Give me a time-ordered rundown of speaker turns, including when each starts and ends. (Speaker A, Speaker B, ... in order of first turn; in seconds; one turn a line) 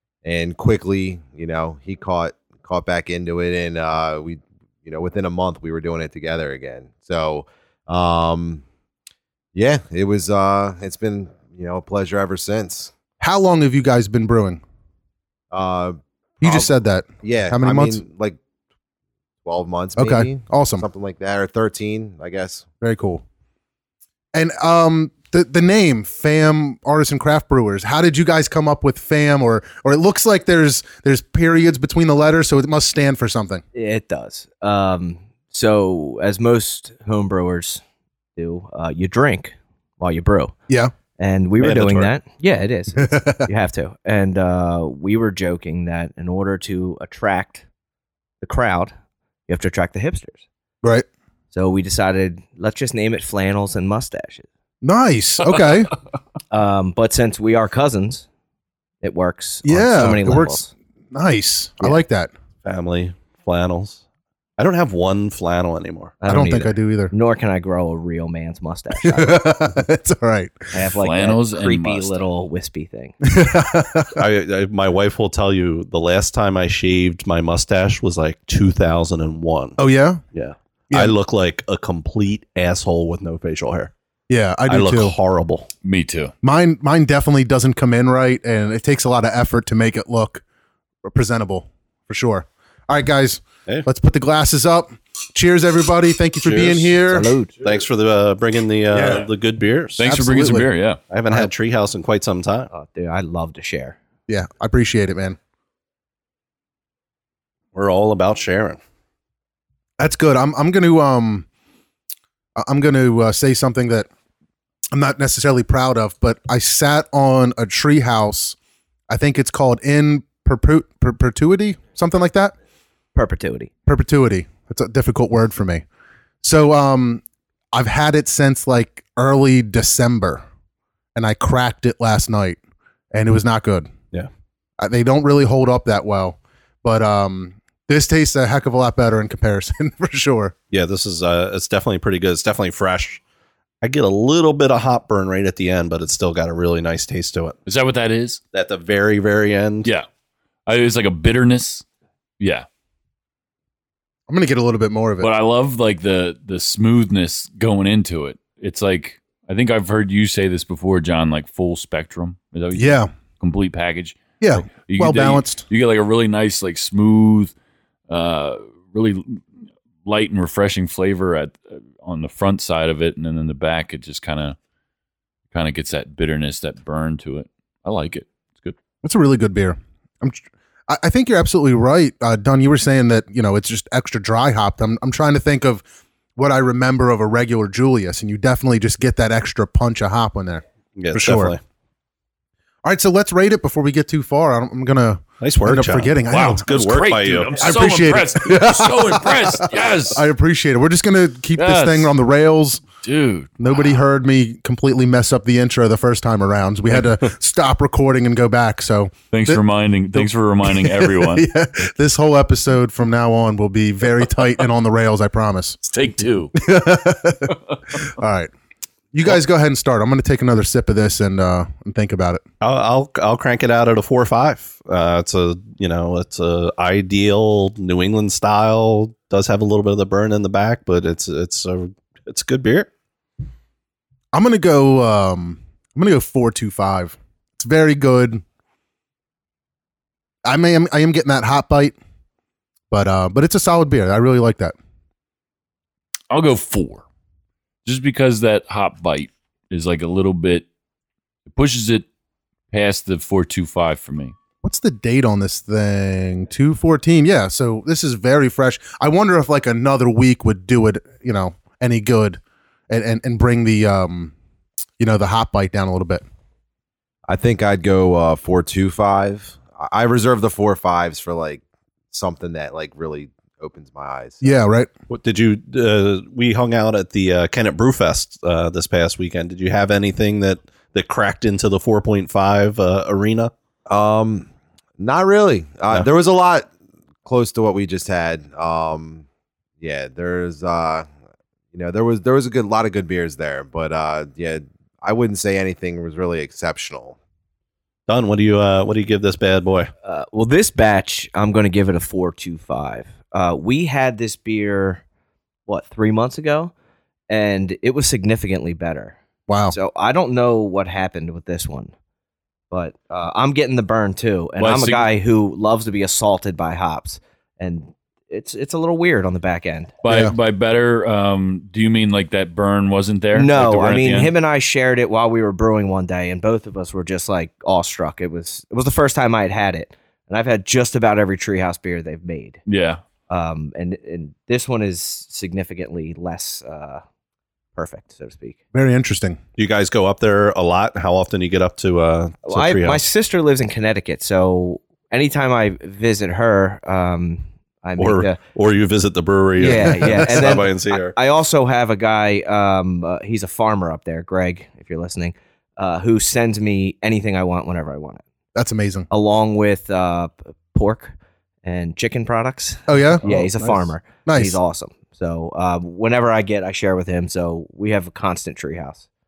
Speaker A: 0.2-8.6
Speaker A: 9.5-12.9
Speaker B: 13.2-14.6
Speaker A: 15.5-18.4
Speaker B: 16.4-18.0
Speaker A: 19.4-22.6
Speaker B: 20.0-20.9
Speaker B: 22.8-23.2
Speaker B: 24.3-33.6
Speaker C: 33.7-37.8
Speaker C: 38.4-40.5
Speaker C: 41.2-47.6
Speaker D: 41.6-42.1
Speaker B: 43.0-43.5
Speaker C: 48.4-48.9
Speaker C: 49.5-50.4
Speaker C: 51.5-54.5
Speaker B: 54.8-55.9
Speaker C: 56.5-58.2
Speaker C: 59.0-60.7
Speaker B: 59.6-60.6
Speaker B: 61.1-62.3
Speaker D: 62.6-64.0
Speaker D: 64.6-66.1
Speaker C: 66.2-69.5
Speaker B: 66.3-67.1
Speaker B: 69.0-70.7
Speaker C: 70.7-73.2
Speaker E: 71.0-72.2
Speaker B: 73.2-74.2
Speaker D: 74.2-79.8
Speaker B: 79.8-80.2
Speaker D: 80.3-83.9
Speaker B: 84.3-85.1
Speaker D: 84.7-85.7
Speaker E: 85.8-86.3
Speaker B: 86.4-90.4
Speaker B: 91.0-97.3
Speaker D: 96.4-96.9
Speaker C: 97.1-97.5
Speaker D: 97.6-100.1
Speaker E: 100.0-101.0
Speaker B: 100.0-100.7
Speaker D: 101.1-102.7
Speaker C: 102.7-104.0
Speaker B: 104.3-105.4
Speaker D: 107.7-108.8
Speaker B: 110.0-111.5
Speaker B: 112.6-114.1
Speaker B: 114.9-118.5
Speaker B: 119.1-122.5
Speaker C: 123.1-123.7
Speaker B: 123.9-125.8
Speaker B: 126.4-127.2
Speaker B: 127.7-130.4
Speaker B: 131.1-132.6
Speaker B: 133.1-133.9
Speaker B: 134.8-140.5
Speaker D: 140.7-143.2
Speaker D: 143.8-147.6
Speaker E: 147.7-148.4
Speaker D: 148.5-149.9
Speaker E: 150.7-151.8
Speaker E: 152.4-152.7
Speaker B: 154.3-155.3
Speaker E: 155.2-167.5
Speaker B: 162.7-163.1
Speaker B: 164.4-165.6
Speaker E: 168.1-169.4
Speaker E: 170.0-174.6
Speaker E: 175.5-178.8
Speaker B: 179.0-185.8
Speaker B: 186.3-191.5
Speaker D: 190.9-191.6
Speaker B: 192.8-196.7
Speaker D: 195.4-197.7
Speaker E: 196.3-200.2
Speaker B: 197.5-202.8
Speaker E: 201.6-202.1
Speaker E: 203.0-203.5
Speaker B: 203.6-209.6
Speaker E: 209.3-211.4
Speaker B: 210.1-215.8
Speaker E: 215.8-216.6
Speaker B: 216.5-218.5
Speaker B: 219.1-222.4
Speaker D: 222.6-232.9
Speaker B: 234.3-238.4
Speaker B: 240.4-241.9
Speaker B: 242.9-244.7
Speaker E: 246.3-247.0
Speaker E: 247.8-250.7
Speaker E: 251.5-252.0
Speaker E: 252.7-254.3
Speaker B: 254.6-264.3
Speaker B: 265.0-266.2
Speaker A: 267.3-274.6
Speaker B: 274.4-274.9
Speaker D: 275.1-283.5
Speaker A: 283.9-286.7
Speaker A: 287.2-289.2
Speaker A: 289.8-291.1
Speaker A: 291.7-297.2
Speaker D: 298.1-299.9
Speaker C: 300.0-305.0
Speaker C: 305.7-306.7
Speaker C: 307.3-309.2
Speaker B: 309.5-309.7
Speaker C: 309.7-311.9
Speaker C: 312.7-319.9
Speaker E: 314.6-315.1
Speaker E: 320.0-324.3
Speaker B: 320.1-320.3
Speaker C: 323.3-332.6
Speaker E: 332.7-333.0
Speaker C: 333.3-337.0
Speaker C: 337.8-338.6
Speaker B: 338.7-339.4
Speaker D: 339.6-343.0
Speaker C: 342.4-348.4
Speaker D: 348.0-351.2
Speaker C: 349.6-358.2
Speaker B: 349.9-350.6
Speaker B: 358.5-359.1
Speaker C: 359.1-361.1
Speaker C: 361.6-369.1
Speaker B: 362.9-363.2
Speaker B: 364.2-364.6